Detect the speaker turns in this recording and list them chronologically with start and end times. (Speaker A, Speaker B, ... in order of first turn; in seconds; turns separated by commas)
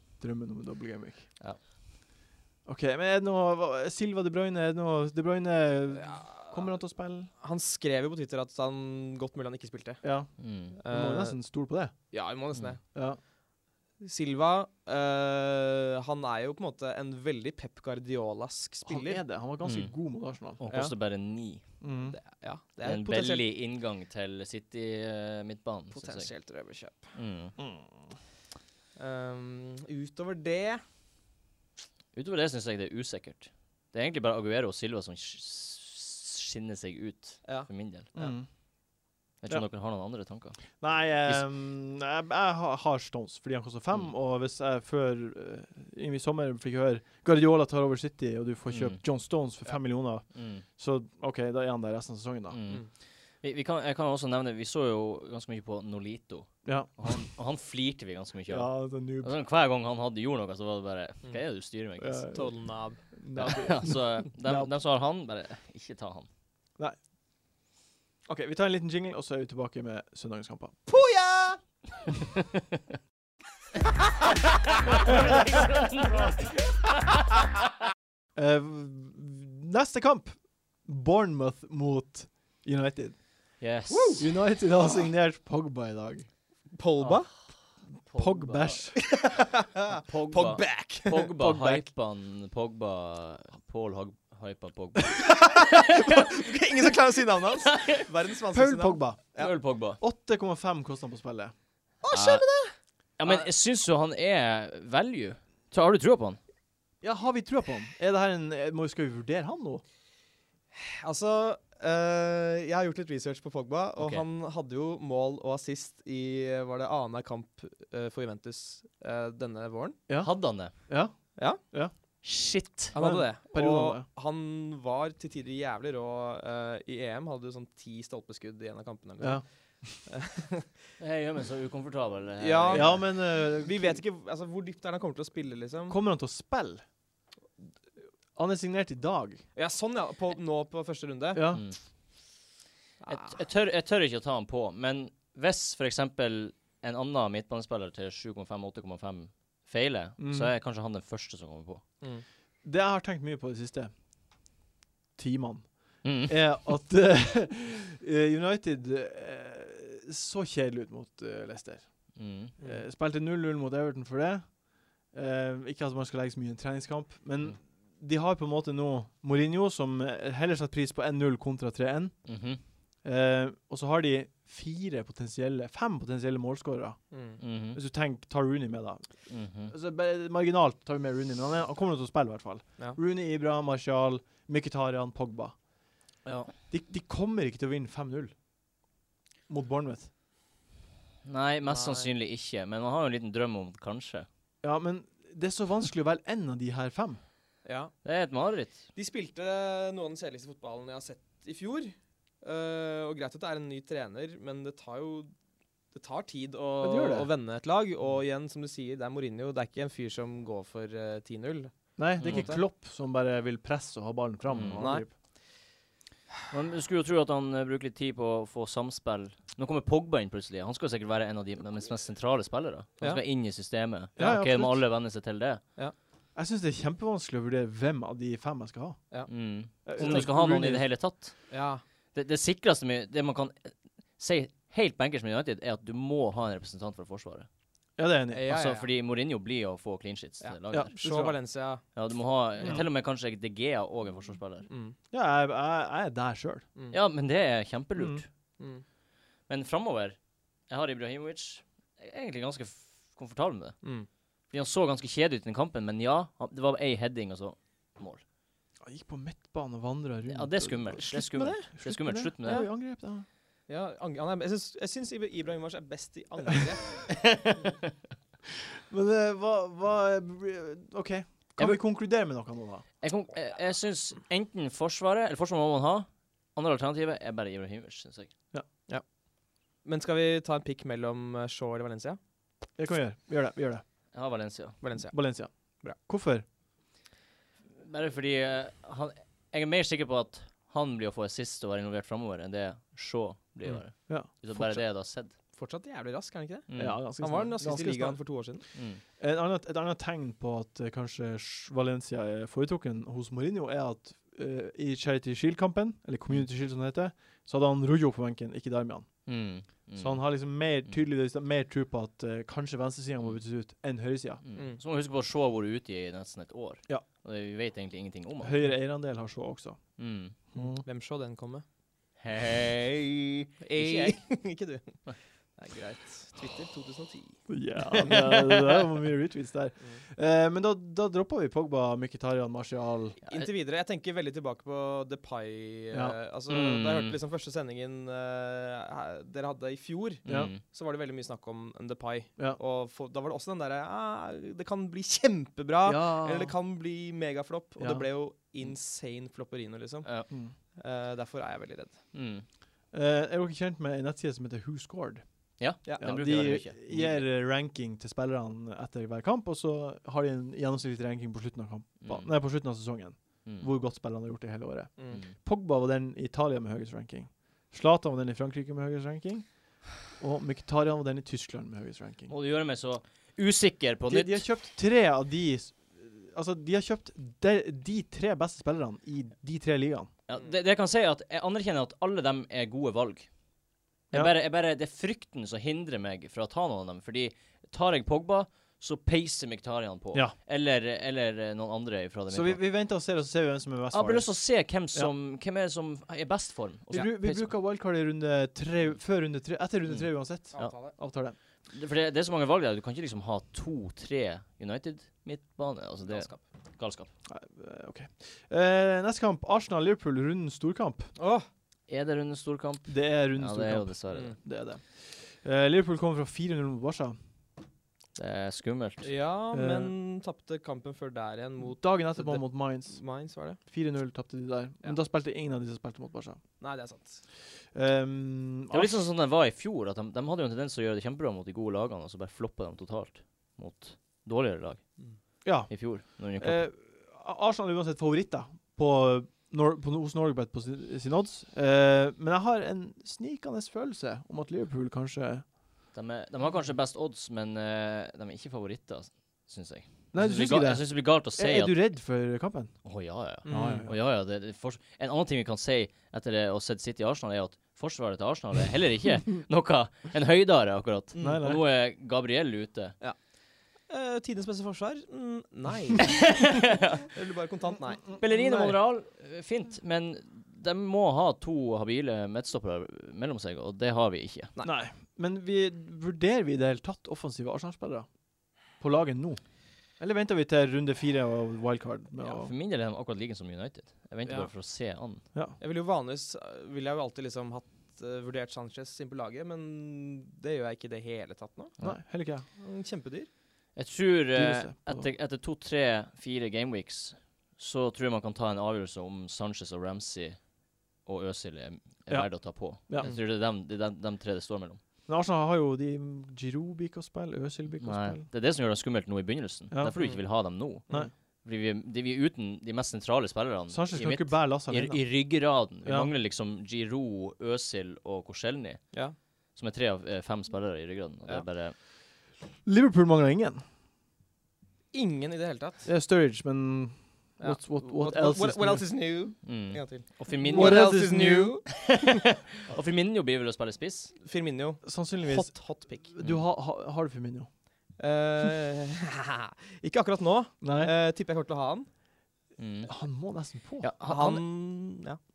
Speaker A: 0.2-1.3, Speaker A: 2.6-7.3, Speaker B: 6.0-6.7, Speaker B: 7.4-10.0, Speaker A: 10.0-12.1, Speaker C: 10.4-10.8, Speaker B: 10.8-11.5, Speaker B: 12.1-12.8, Speaker A: 12.9-13.2, Speaker B: 14.0-19.2, Speaker A: 18.8-20.6, Speaker C: 19.6-19.9, Speaker C: 20.6-21.6, Speaker B: 20.7-20.9, Speaker A: 21.8-22.2, Speaker B: 22.1-23.4, Speaker C: 22.8-26.3, Speaker B: 25.9-27.1, Speaker C: 27.1-27.5, Speaker A: 27.6-27.9, Speaker B: 28.9-30.8, Speaker C: 32.1-38.1, Speaker B: 37.4-38.4, Speaker A: 38.1-38.5, Speaker C: 39.4-40.7, Speaker A: 40.8-52.6, Speaker C: 48.7-49.0, Speaker C: 50.3-50.6, Speaker C: 52.5-52.9, Speaker C: 53.4-62.3, Speaker A: 56.6-57.0, Speaker A: 58.5-59.3, Speaker A: 62.0-64.7, Speaker B: 62.3-63.0, Speaker C: 63.4-66.3, Speaker A: 68.3-70.8, Speaker B: 70.9-71.6, Speaker C: 75.0-76.5, Speaker A: 78.3-83.2, Speaker C: 83.6-84.2, Speaker B: 83.9-84.2, Speaker A: 84.2-86.3, Speaker B: 86.7-87.3, Speaker C: 87.0-87.5, Speaker C: 88.0-88.9, Speaker A: 88.1-89.0, Speaker B: 89.0-91.3, Speaker C: 90.0-95.5, Speaker A: 91.4-91.8, Speaker B: 95.2-99.5, Speaker C: 97.7-98.0, Speaker A: 98.5-101.5, Speaker C: 99.4-100.0, Speaker B: 102.0-103.5, Speaker C: 102.1-102.4, Speaker C: 103.2-106.4, Speaker A: 107.0-109.8, Speaker B: 110.7-120.0, Speaker C: 114.0-114.2, Speaker A: 120.1-121.9, Speaker C: 120.2-120.7, Speaker C: 122.2-123.0, Speaker B: 122.9-130.7, Speaker A: 122.9-124.0, Speaker A: 129.2-130.0, Speaker C: 131.0-133.1, Speaker B: 132.4-136.0, Speaker A: 132.7-134.0, Speaker A: 135.9-136.8, Speaker A: 138.3-139.4, Speaker B: 139.5-141.4, Speaker A: 141.3-141.7, Speaker C: 141.5-141.8, Speaker B: 143.0-143.3, Speaker C: 143.1-151.8, Speaker A: 150.2-150.5, Speaker A: 152.6-153.9, Speaker A: 155.2-172.3, Speaker C: 156.0-156.5, Speaker C: 162.1-162.5, Speaker B: 162.6-162.8, Speaker C: 172.2-172.6, Speaker A: 173.0-177.1, Speaker B: 177.1-177.4, Speaker C: 177.4-177.8, Speaker A: 177.7-185.6, Speaker C: 179.3-179.7, Speaker C: 186.2-186.5, Speaker A: 186.7-188.3, Speaker A: 189.5-190.1, Speaker C: 191.2-194.3, Speaker B: 191.7-192.1, Speaker A: 194.6-197.2, Speaker B: 197.6-197.9, Speaker C: 198.0-198.8, Speaker B: 198.9-205.3, Speaker B: 205.9-212.6, Speaker A: 206.8-207.3, Speaker A: 212.0-215.1, Speaker C: 212.2-212.5, Speaker C: 214.5-214.8, Speaker B: 214.8-215.1, Speaker C: 216.5-225.6, Speaker A: 224.2-224.8, Speaker A: 226.3-229.0, Speaker C: 229.3-231.6, Speaker A: 229.8-230.9, Speaker B: 230.0-230.2, Speaker B: 231.5-231.8, Speaker C: 232.1-237.5, Speaker A: 238.0-238.5, Speaker B: 238.3-238.9, Speaker C: 238.5-240.9, Speaker B: 240.4-241.8, Speaker A: 240.7-241.3, Speaker C: 241.9-244.7, Speaker B: 244.7-244.9, Speaker A: 245.1-246.7, Speaker C: 246.9-248.2, Speaker A: 248.0-248.2, Speaker B: 248.6-248.8, Speaker C: 249.5-253.8, Speaker B: 253.8-254.1, Speaker C: 254.5-258.2, Speaker A: 258.8-263.2, Speaker C: 260.3-262.6, Speaker B: 260.9-261.7, Speaker B: 262.4-262.7, Speaker B: 263.7-267.1, Speaker C: 267.1-267.7, Speaker A: 268.9-272.8, Speaker C: 273.0-278.3, Speaker B: 279.8-282.2, Speaker A: 282.8-283.8, Speaker C: 284.1-284.8, Speaker B: 284.8-286.0, Speaker A: 285.1-286.4, Speaker C: 287.8-295.3, Speaker A: 294.0-294.8, Speaker B: 295.5-298.6, Speaker C: 296.7-297.0, Speaker A: 296.8-298.2, Speaker C: 298.7-299.0, Speaker A: 299.2-309.4, Speaker C: 309.2-310.2, Speaker A: 309.9-314.4, Speaker C: 314.4-318.7, Speaker B: 314.5-314.8, Speaker A: 318.4-320.0, Speaker C: 320.0-320.3, Speaker A: 320.5-320.8, Speaker B: 320.5-321.6, Speaker C: 322.2-324.4, Speaker B: 323.6-328.5, Speaker A: 327.5-333.2, Speaker B: 333.2-352.0, Speaker C: 336.5-337.2, Speaker C: 340.2-340.6, Speaker A: 340.2-340.5, Speaker A: 345.9-346.5, Speaker A: 347.8-348.1, Speaker C: 352.1-352.4, Speaker A: 352.9-372.3, Speaker C: 355.6-357.3, Speaker B: 355.8-356.1, Speaker C: 362.0-362.4, Speaker B: 365.0-365.2, Speaker C: 372.3-374.5, Speaker A: 374.1-380.1, Speaker C: 380.3-383.3, Speaker C: 384.1-392.6, Speaker A: 392.3-394.3, Speaker C: 393.9-397.5, Speaker A: 396.9-401.4, Speaker B: 400.5-400.9, Speaker C: 401.7-407.1, Speaker B: 406.0-406.4, Speaker A: 407.2-411.1, Speaker B: 411.1-411.5, Speaker C: 411.9-414.3, Speaker A: 412.9-417.2, Speaker B: 414.1-414.4, Speaker C: 418.1-419.1, Speaker B: 419.0-423.6, Speaker A: 419.5-419.9, Speaker A: 421.7-426.4, Speaker B: 426.6-427.2, Speaker A: 427.7-429.0, Speaker C: 428.7-434.9, Speaker A: 435.4-445.5, Speaker C: 435.6-436.6, Speaker C: 445.9-451.8, Speaker A: 450.1-452.8, Speaker C: 452.8-463.0, Speaker B: 453.4-453.9, Speaker A: 453.4-453.9, Speaker B: 461.1-461.4, Speaker A: 461.2-461.6, Speaker B: 463.8-466.5, Speaker C: 466.1-467.1, Speaker B: 467.1-468.0, Speaker A: 468.0-468.8, Speaker C: 468.2-474.5, Speaker A: 474.6-478.1, Speaker A: 478.7-479.4, Speaker A: 479.9-482.5, Speaker C: 482.3-485.2, Speaker B: 484.2-484.5, Speaker B: 485.6-491.8, Speaker A: 491.8-492.4, Speaker B: 492.5-493.3, Speaker C: 493.7-504.8, Speaker A: 494.3-495.1, Speaker A: 502.1-503.1, Speaker A: 505.1-508.2, Speaker C: 507.8-510.9, Speaker A: 509.7-510.3, Speaker B: 509.9-511.1, Speaker C: 511.4-519.0, Speaker A: 513.7-515.1, Speaker A: 515.8-516.1, Speaker C: 519.5-521.7, Speaker A: 522.6-523.6, Speaker B: 524.9-525.9, Speaker A: 525.8-528.9, Speaker B: 527.4-532.1, Speaker C: 529.4-531.0, Speaker A: 530.4-531.6, Speaker C: 531.7-534.1, Speaker B: 534.2-536.1, Speaker A: 534.8-537.5, Speaker B: 538.0-541.9, Speaker A: 540.6-540.9, Speaker C: 542.6-543.0, Speaker A: 542.8-543.9, Speaker C: 543.8-544.4, Speaker B: 544.0-545.2